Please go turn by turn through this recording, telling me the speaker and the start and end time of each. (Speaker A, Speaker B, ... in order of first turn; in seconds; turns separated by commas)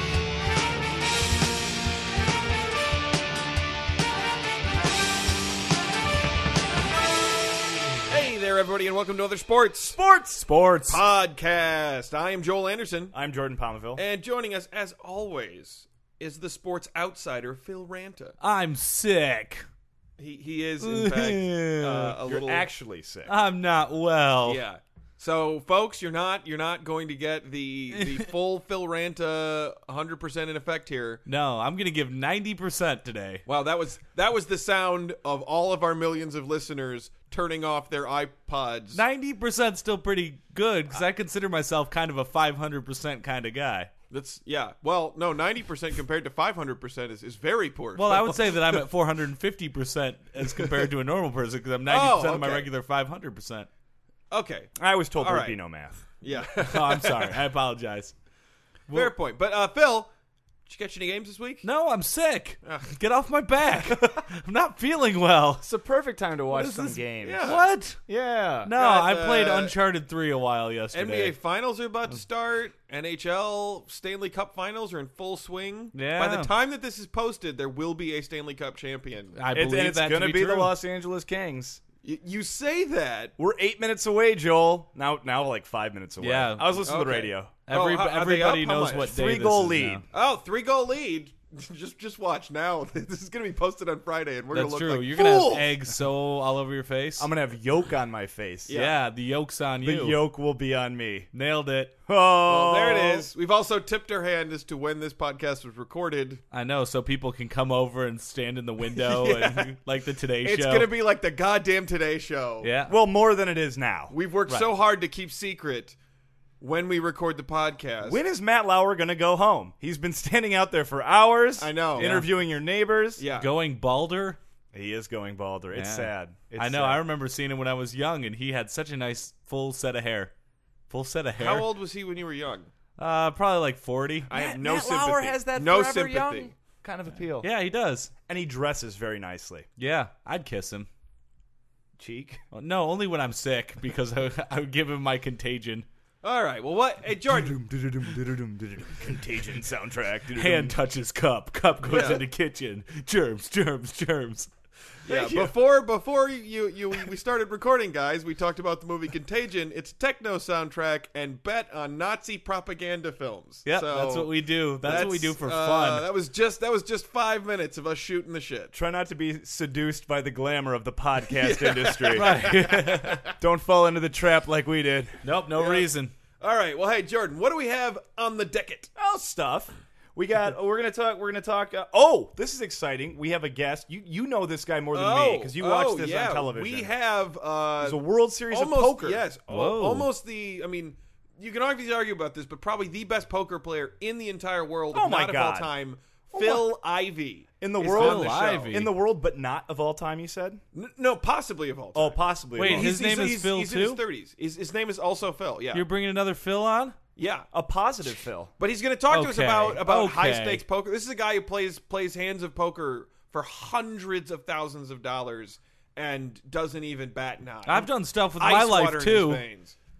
Speaker A: 8.1-10.0, Speaker B: 9.9-11.0, Speaker A: 10.9-13.1, Speaker B: 13.1-14.0, Speaker A: 13.9-18.3, Speaker C: 18.4-19.6, Speaker A: 20.2-22.7, Speaker C: 20.8-22.2, Speaker B: 22.2-23.3, Speaker C: 23.3-24.6, Speaker A: 24.4-31.2, Speaker C: 27.9-28.2, Speaker C: 31.2-33.4, Speaker A: 33.5-39.0, Speaker C: 38.9-43.9, Speaker A: 44.1-48.5, Speaker C: 48.0-53.7, Speaker A: 51.9-52.7, Speaker A: 54.3-55.6, Speaker B: 54.8-56.0, Speaker A: 56.2-57.4, Speaker C: 56.5-58.1, Speaker A: 58.9-60.1, Speaker A: 60.6-61.6, Speaker C: 61.6-65.7, Speaker A: 62.6-62.9, Speaker B: 63.9-64.2, Speaker B: 65.6-68.7, Speaker C: 66.5-68.0, Speaker A: 67.2-67.6, Speaker C: 68.6-71.3, Speaker A: 68.7-69.7, Speaker A: 70.9-79.4, Speaker C: 75.9-76.5, Speaker C: 79.3-80.8, Speaker B: 79.5-81.8, Speaker A: 82.0-83.3, Speaker B: 83.4-87.5, Speaker C: 86.2-86.8, Speaker A: 86.8-89.1, Speaker C: 87.7-90.0, Speaker B: 89.0-90.0, Speaker A: 90.1-95.8, Speaker C: 94.5-97.3, Speaker B: 97.2-98.7, Speaker A: 98.7-99.0, Speaker C: 98.7-100.2, Speaker B: 99.8-101.3, Speaker C: 101.3-101.9, Speaker B: 102.1-103.3, Speaker A: 102.4-106.4, Speaker C: 106.5-110.9, Speaker A: 108.9-109.8, Speaker A: 110.4-112.7, Speaker C: 112.6-112.9, Speaker B: 112.9-114.1, Speaker A: 114.1-116.0, Speaker A: 116.6-118.2, Speaker B: 118.0-123.2, Speaker A: 121.6-122.2, Speaker C: 122.0-122.3, Speaker A: 123.2-123.5, Speaker C: 123.3-124.4, Speaker B: 124.7-127.0, Speaker C: 125.7-130.3, Speaker C: 130.9-131.7, Speaker A: 131.4-132.7, Speaker C: 133.0-134.3, Speaker A: 134.3-136.5, Speaker B: 134.3-137.5, Speaker C: 137.4-138.1, Speaker B: 138.3-139.7, Speaker C: 139.8-140.9, Speaker B: 142.0-142.4, Speaker C: 142.5-145.8, Speaker A: 146.2-147.6, Speaker B: 147.3-150.8, Speaker C: 150.3-154.5, Speaker A: 151.9-152.2, Speaker A: 155.0-168.7, Speaker B: 155.1-155.5, Speaker C: 163.6-166.1, Speaker B: 168.7-175.2, Speaker A: 171.3-173.1, Speaker C: 172.1-173.2, Speaker C: 175.2-176.1, Speaker A: 175.6-178.9, Speaker B: 178.9-186.9, Speaker A: 184.9-198.9, Speaker B: 187.8-189.2, Speaker C: 189.5-190.1, Speaker B: 194.9-195.7, Speaker B: 196.3-196.7, Speaker B: 197.6-200.6, Speaker C: 197.8-198.9, Speaker A: 200.7-205.8, Speaker B: 201.9-202.9, Speaker C: 202.6-204.0, Speaker C: 205.7-206.9, Speaker A: 207.2-207.5, Speaker B: 207.5-208.5, Speaker A: 208.6-219.8, Speaker C: 209.1-210.6, Speaker C: 217.7-219.4